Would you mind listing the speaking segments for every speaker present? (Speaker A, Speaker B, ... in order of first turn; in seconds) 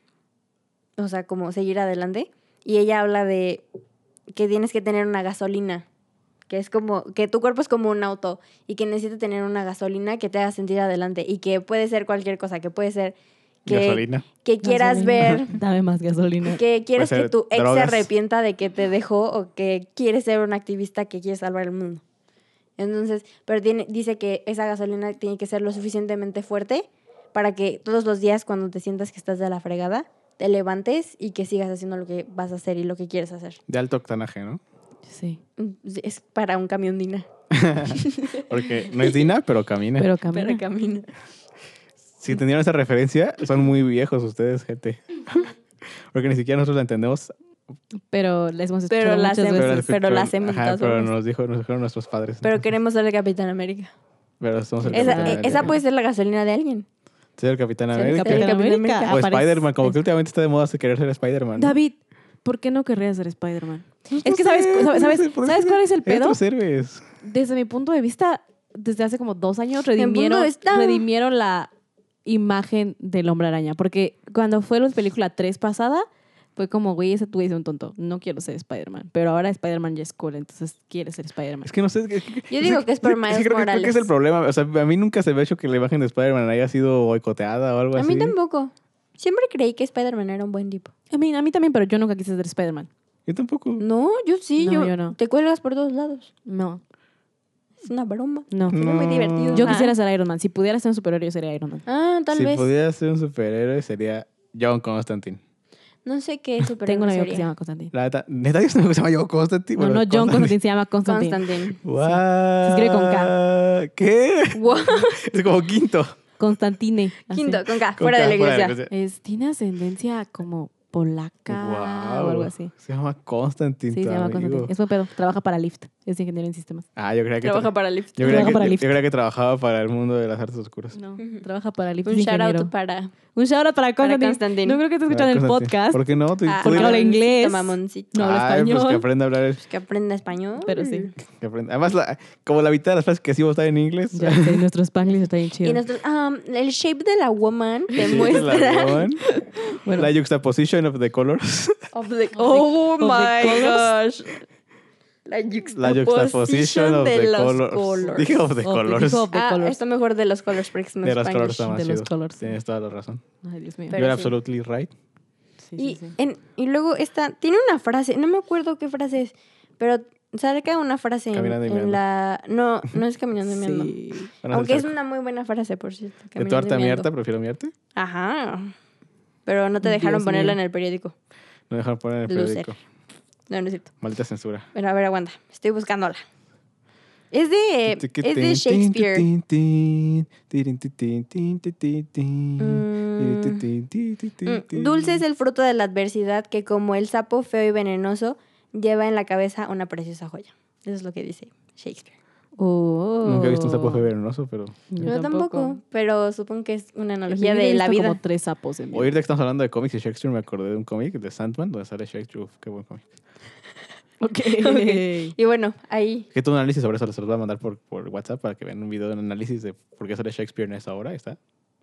Speaker A: 1.0-3.6, 4.3-5.8, 6.5-15.5, 16.5-22.0, 22.8-33.6, 35.6-37.3, 37.9-39.1, 40.3-41.1, 48.9-51.1, 52.4-53.9, 54.9-56.9, 57.9-59.2, 70.0-71.0, 82.5-84.1, 87.9-90.9, 93.8-96.3, 97.8-99.9, 101.8-102.7, 106.0-107.5, 111.0-111.8, 114.5-115.3, 117.3-118.8, 127.4-128.6, 131.2-131.4, 132.0-133.1, 134.0-134.8, 136.4-138.2, 139.6-141.1, 145.6-149.1, 151.9-154.4, 155.2-158.4, 159.3-161.7, 163.9-164.3, 165.8-177.1, 177.9-178.7, 179.4-181.1, 182.3-182.7, 183.5-183.9, 184.7-186.2, 187.3-189.3, 192.6-193.6, 194.4-202.1, 205.0-208.2, 214.6-216.3
Speaker B: 13.7-14.2, 16.9-18.1, 33.7-34.6, 37.5-40.1, 42.2-45.5, 46.1-47.3, 49.5-52.6, 54.4-55.7, 57.4-58.5, 59.1-61.8, 64.1-67.0, 81.6-88.3, 93.3-93.8, 98.7-99.8, 102.3-105.4, 107.9-110.5, 111.8-116.2, 118.0-118.9, 121.5-124.7, 127.0-130.9, 135.1-137.0, 138.1-139.6, 141.3-144.6, 148.0-149.3, 149.9-151.8, 155.7-159.3, 161.0-163.2, 163.9-164.9, 171.3-172.0, 174.4-174.9, 176.4-177.7, 181.7-182.8, 184.0-184.7, 187.9-195.2, 203.2-204.8, 208.9-213.1, 216.3-221.4
Speaker C: 14.6-16.6, 35.1-35.4, 40.0-40.6, 48.1-49.9, 54.8-55.7, 58.0-60.0, 61.6-66.4, 67.2-71.7, 72.2-81.7, 91.1-92.9, 94.6-95.2, 96.5-96.8, 98.5-98.8, 99.5-101.8, 106.8-107.9, 109.8-113.3, 116.4-117.6, 118.9-122.7, 123.9-126.8, 128.2-128.9, 130.9-132.7, 133.3-136.0, 136.6-139.0, 140.6-141.1, 144.1-145.8, 148.0-148.3, 149.3-150.1, 152.3-153.9, 158.6-159.8, 161.6-162.5, 163.4-164.0, 165.7-166.1, 173.4-174.3, 179.8-180.6, 202.6-204.1, 204.9-205.8, 207.3-209.2, 214.2-215.3